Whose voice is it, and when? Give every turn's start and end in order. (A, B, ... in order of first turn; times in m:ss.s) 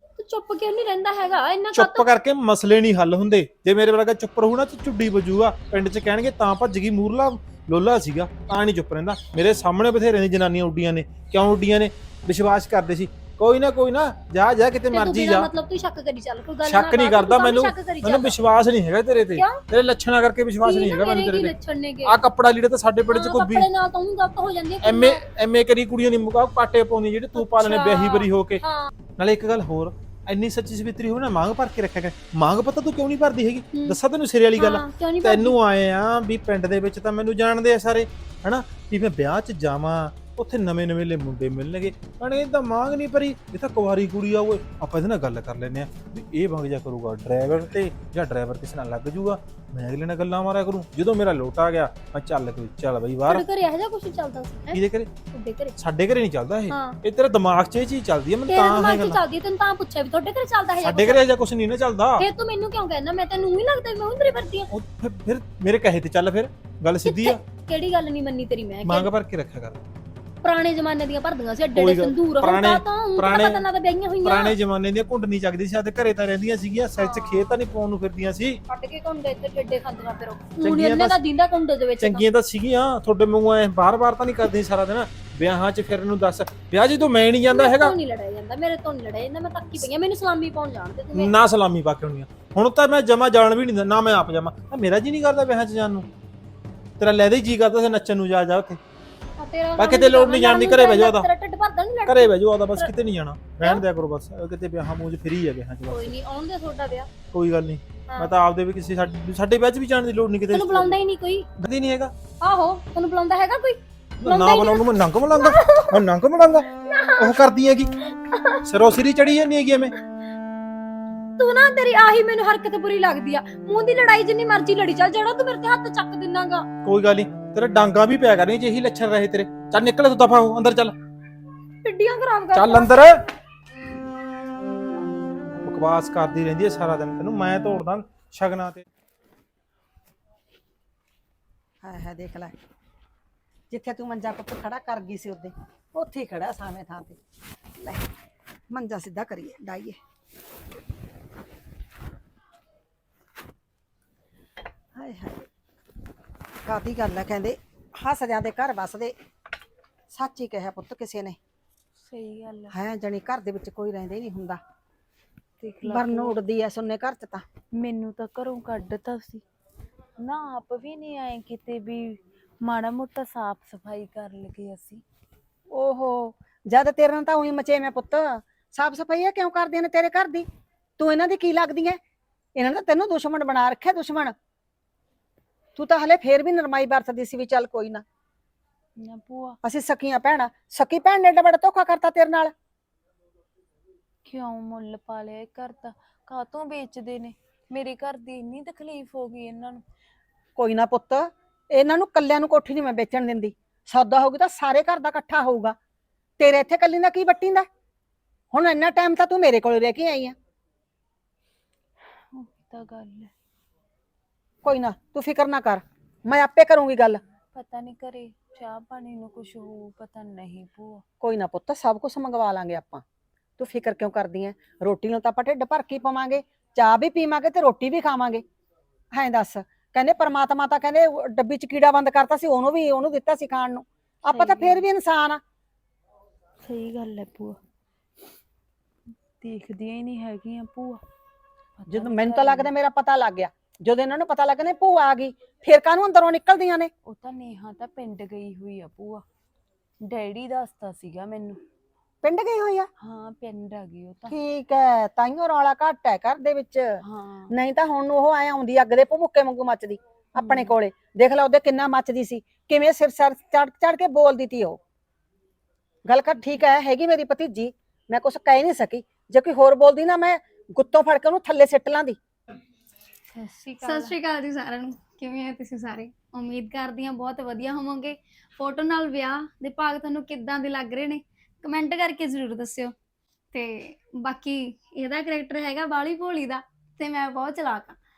0:00.2-0:02.1 A
0:01.7-0:15.5 B
0:14.9-0:18.4 A
0:16.6-0:23.7 B
0:19.4-0:19.6 A
0:20.6-0:22.2 A
0:23.1-0:25.2 A
0:24.8-0:28.6 B
0:27.4-0:28.9 A
0:29.2-0:53.4 B
0:34.6-0:35.6 A
0:53.3-0:55.8 A
0:54.7-0:55.1 B
0:55.8-0:59.2 B
0:56.7-0:57.0 A
0:58.5-1:01.2 A
1:00.8-1:02.3 B
1:02.2-1:04.7 A
1:04.7-1:07.4 B
1:07.0-1:09.1 A
1:08.8-1:09.8 B
1:10.4-1:14.5 A
1:11.7-1:13.6 B
1:14.2-1:18.6 B
1:17.0-1:17.6 A
1:18.7-1:22.2 A
1:20.6-1:21.2 B
1:22.0-1:28.0 B
1:27.5-1:31.3 A
1:31.1-1:36.1 B
1:37.0-1:38.8 B
1:39.4-1:42.9 A
1:39.8-1:41.3 B
1:42.1-1:46.1 B
1:45.9-1:47.1 A
1:47.3-1:51.0 B
1:48.1-1:48.3 A
1:50.5-1:51.5 A
1:51.6-1:52.1 B
1:52.4-1:56.0 A
1:54.2-1:57.9 B
1:56.8-1:57.4 A
1:58.3-1:58.6 A
1:58.6-1:59.9 B
2:01.4-2:06.6 A
2:06.8-2:11.0 B
2:11.8-2:13.2 A
2:12.5-2:13.2 B
2:15.6-2:18.8 B
2:21.8-2:22.5 C
2:23.7-2:27.2 C
2:27.8-2:28.1 C
2:28.7-2:30.0 C
2:34.9-2:35.4 C
2:36.6-2:39.1 C
2:40.1-2:41.4 C
2:42.0-2:42.7 D
2:42.7-2:44.6 C
2:45.6-2:46.4 D
2:45.8-2:47.4 C
2:47.8-2:49.4 D
2:50.2-2:55.0 D
2:55.7-3:00.4 C
3:01.0-3:02.0 C
3:02.6-3:04.4 C
3:05.8-3:08.0 C
3:09.0-3:09.6 D
3:09.6-3:12.5 C
3:14.2-3:19.8 D
3:20.6-3:25.8 C
3:26.4-3:27.7 C
3:28.5-3:30.4 C
3:32.3-3:33.3 D
3:34.6-3:37.2 C
3:37.5-3:41.0 D
3:41.2-3:43.0 C
3:43.6-3:48.4 C
3:49.1-3:55.4 C
3:54.3-3:54.8 D
3:56.6-3:57.6 D
3:59.4-4:01.0 D
4:01.8-4:02.7 D
4:01.9-4:06.9 C
4:07.1-4:09.2 D
4:10.0-4:11.6 D
4:12.2-4:12.9 C
4:13.0-4:14.3 D
4:14.3-4:24.8 C
4:17.0-4:17.5 D
4:20.4-4:20.8 D
4:26.1-4:32.2 C
4:33.4-4:34.1 D
4:33.7-4:42.9 A
4:43.5-4:48.0 A